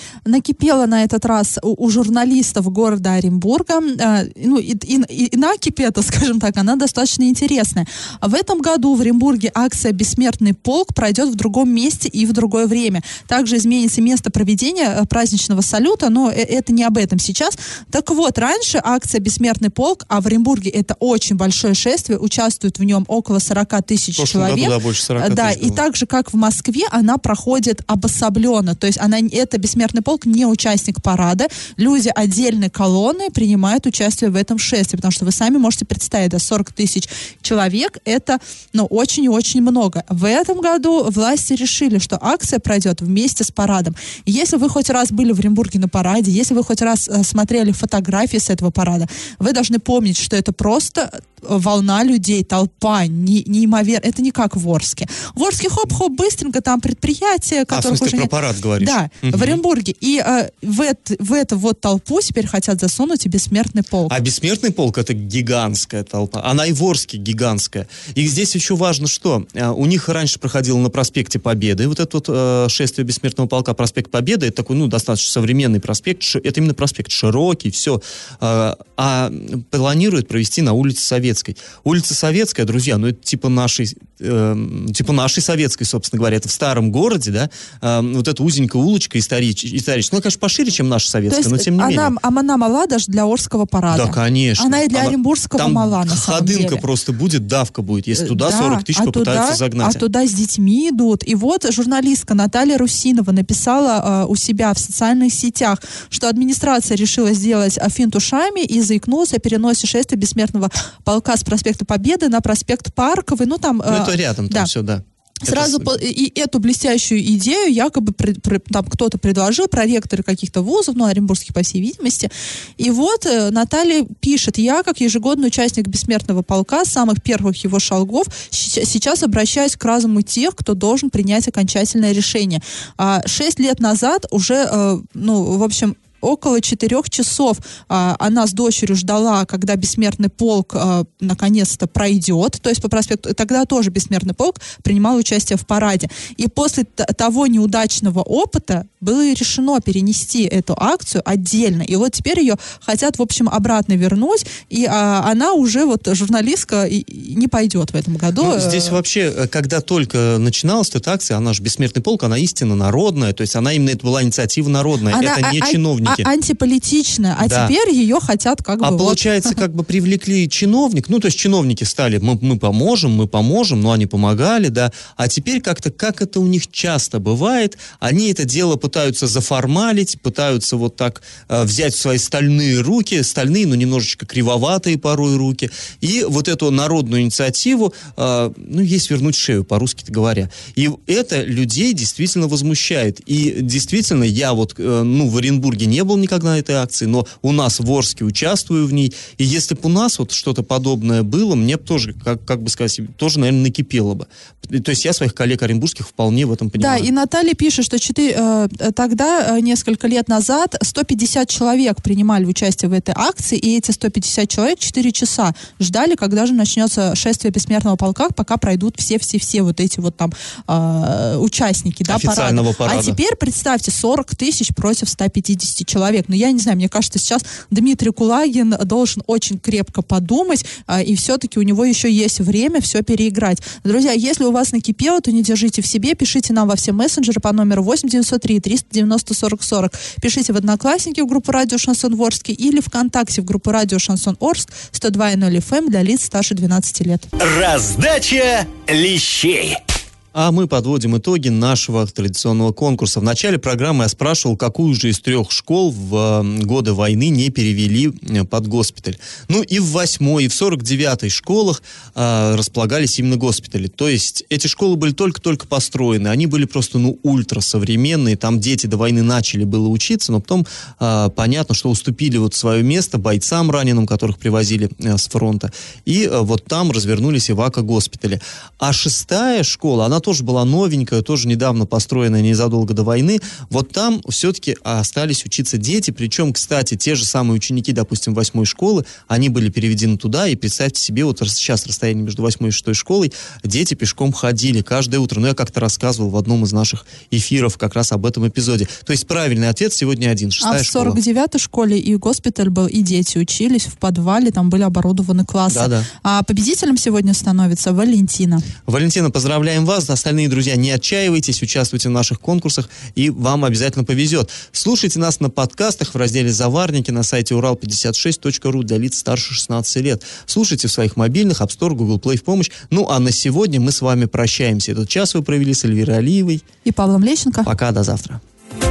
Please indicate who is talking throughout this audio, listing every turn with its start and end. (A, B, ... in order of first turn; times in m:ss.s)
0:00.2-1:04.1 A
0:24.2-0:25.8 B
0:57.7-0:59.6 B
1:04.1-1:32.1 B
1:31.3-1:36.8 A
1:33.9-1:40.0 B
1:38.1-1:54.7 A
1:53.9-1:56.0 B
1:55.4-2:39.0 A
2:38.4-2:46.2 B
2:45.1-2:49.6 A
2:47.4-2:47.7 B
2:48.8-3:27.1 B
3:26.8-4:07.2 A
3:42.1-3:43.2 B
4:07.4-4:09.8 C
4:10.3-5:01.2 B
5:00.6-5:08.6 A
5:05.7-5:06.1 B
5:08.8-5:26.6 B
5:26.8-5:27.7 A
5:27.6-5:28.4 B